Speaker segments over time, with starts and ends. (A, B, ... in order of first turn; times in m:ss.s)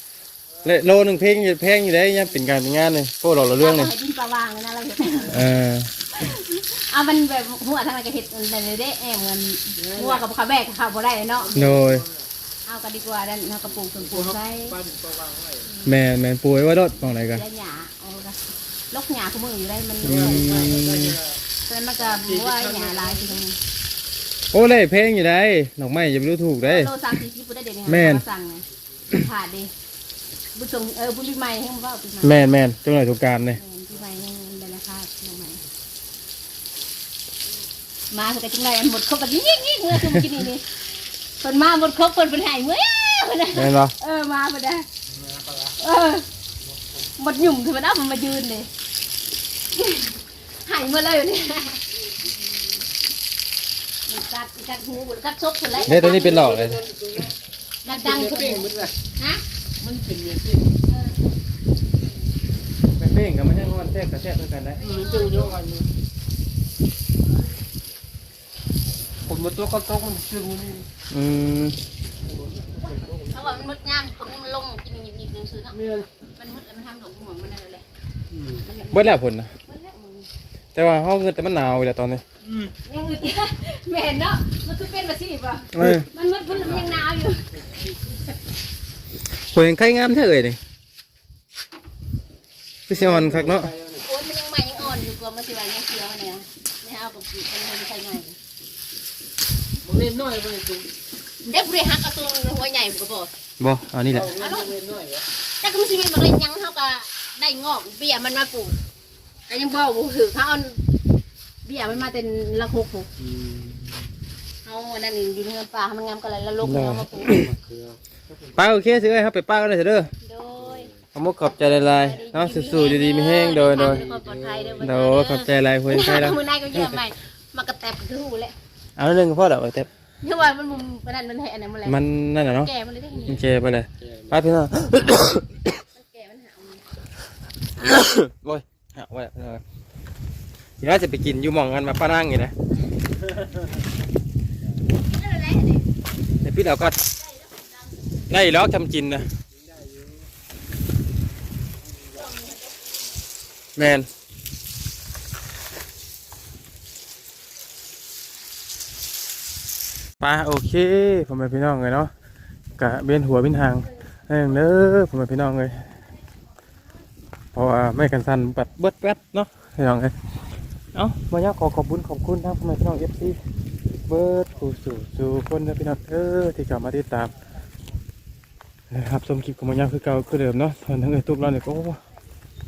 0:00.6-0:00.8 A
0:00.6-0:03.9 B
0:03.6-0:05.5 C
0:05.3-0:05.9 B
0:06.1-0:11.6 C
0:09.8-0:10.3 A
0:11.4-0:12.3 A
0:11.5-0:12.0 B
0:12.7-0:14.8 C
0:13.8-0:15.8 A
0:15.8-0:17.4 B
0:17.2-0:18.4 C
0:18.9-0:20.7 C
0:20.0-0:21.2 B
0:20.0-0:21.4 A
0:21.7-0:23.6 C
0:22.0-0:23.4 A
0:24.5-0:27.0 B
0:26.6-0:29.7 C
0:27.9-0:28.2 B
0:30.6-0:32.4 C
0:32.2-0:33.6 B
0:33.5-0:35.6 C
0:38.1-0:40.7 C
0:40.0-0:40.3 B
0:41.4-0:44.9 C
0:43.5-0:43.9 B
0:45.1-0:45.8 A
0:45.8-0:46.3 C
0:47.2-0:48.7 C
0:49.8-0:52.0 C
0:54.1-0:56.5 C
0:55.7-0:59.0 A
0:55.9-0:56.8 B
0:57.8-0:59.4 C
0:59.8-1:00.7 A
1:00.9-1:01.2 C
1:03.0-1:04.8 B
1:04.8-1:05.6 C
1:04.8-1:05.9 A
1:09.3-1:10.9 A
1:11.1-1:11.8 B
1:12.2-1:13.7 A
1:13.3-1:15.8 C
1:15.7-1:16.1 A
1:16.4-1:17.8 C
1:18.3-1:18.6 A
1:18.6-1:20.3 C
1:18.9-1:19.5 B
1:20.8-1:22.2 B
1:22.4-1:22.7 A
1:22.8-1:27.8 C
1:25.7-1:26.1 B
1:26.5-1:27.1 A
1:29.4-1:30.6 B
1:32.9-1:33.7 B
1:32.9-1:34.0 A
1:34.0-1:38.4 C
1:39.8-1:40.9 A
1:41.4-1:43.3 C
1:43.6-1:44.3 B
1:44.1-1:45.3 A
1:44.4-1:44.7 C
1:45.6-1:48.8 C
1:49.5-1:50.8 C
1:51.6-1:53.1 C
1:53.2-1:54.1 A
1:54.6-1:57.4 C
1:56.6-1:57.5 B
1:57.3-1:59.1 A
1:58.6-2:00.1 B
2:00.2-2:00.9 C
2:00.6-2:01.0 A
2:01.2-2:04.0 B
2:01.6-2:08.6 C
2:03.6-2:04.9 A
2:04.8-2:07.0 B
2:09.0-2:09.9 B
2:10.2-2:13.4 C
2:11.8-2:12.7 B
2:13.3-2:15.6 B
2:14.0-2:14.4 A
2:15.9-2:16.9 C
2:17.8-2:19.6 B
2:20.8-2:22.5 B
2:25.0-2:25.8 C
2:26.4-2:27.0 B
2:28.3-2:29.3 B
2:29.6-2:30.2 A
2:33.8-2:34.1 B
2:40.2-2:42.1 B
2:42.8-2:45.9 B
2:47.5-2:50.1 B
2:50.9-2:53.4 B
2:54.1-2:57.3 B
2:58.9-3:02.0 B